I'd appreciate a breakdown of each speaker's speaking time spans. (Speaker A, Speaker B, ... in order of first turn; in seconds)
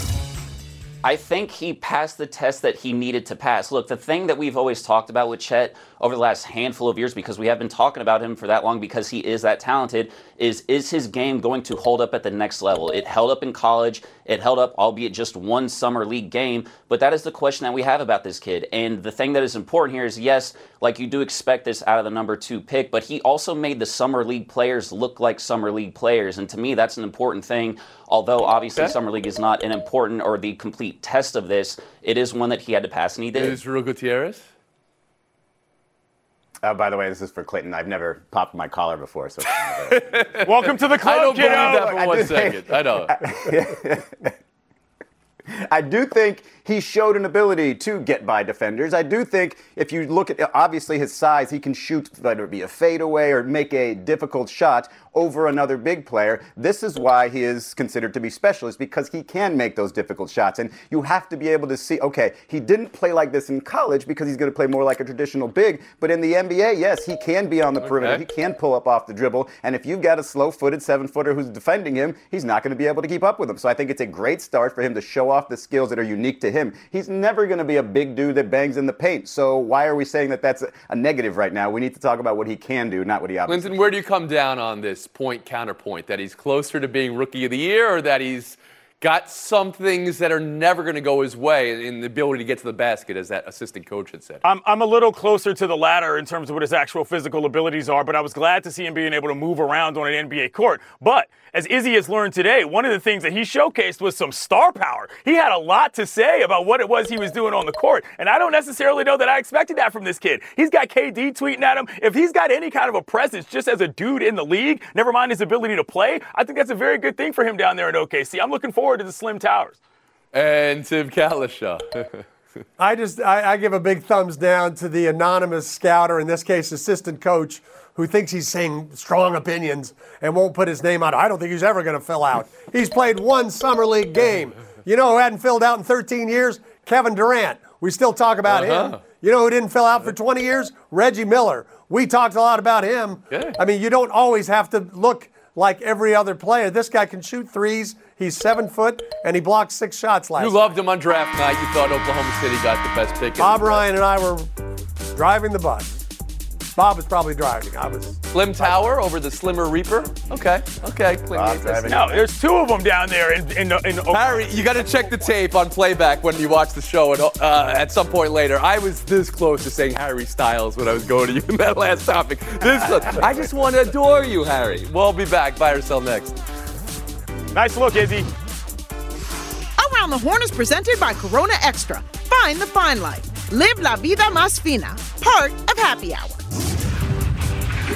Speaker A: 1.0-33.6
Speaker B: 33.3-34.5, 39.7-43.3, 67.8-68.2, 83.5-94.4, 120.3-122.2, 138.5-139.0, 143.3-143.6, 150.4-153.9, 158.3-162.0, 164.1-176.4
Speaker C: 36.6-40.3, 41.4-44.3, 45.5-84.0, 161.3-162.3
Speaker D: 40.4-42.0, 94.4-119.8, 161.9-164.7, 177.5-178.3
Speaker E: 122.8-150.7, 153.4-154.5, 155.1-155.9, 156.8-158.8
Speaker F: 179.8-186.6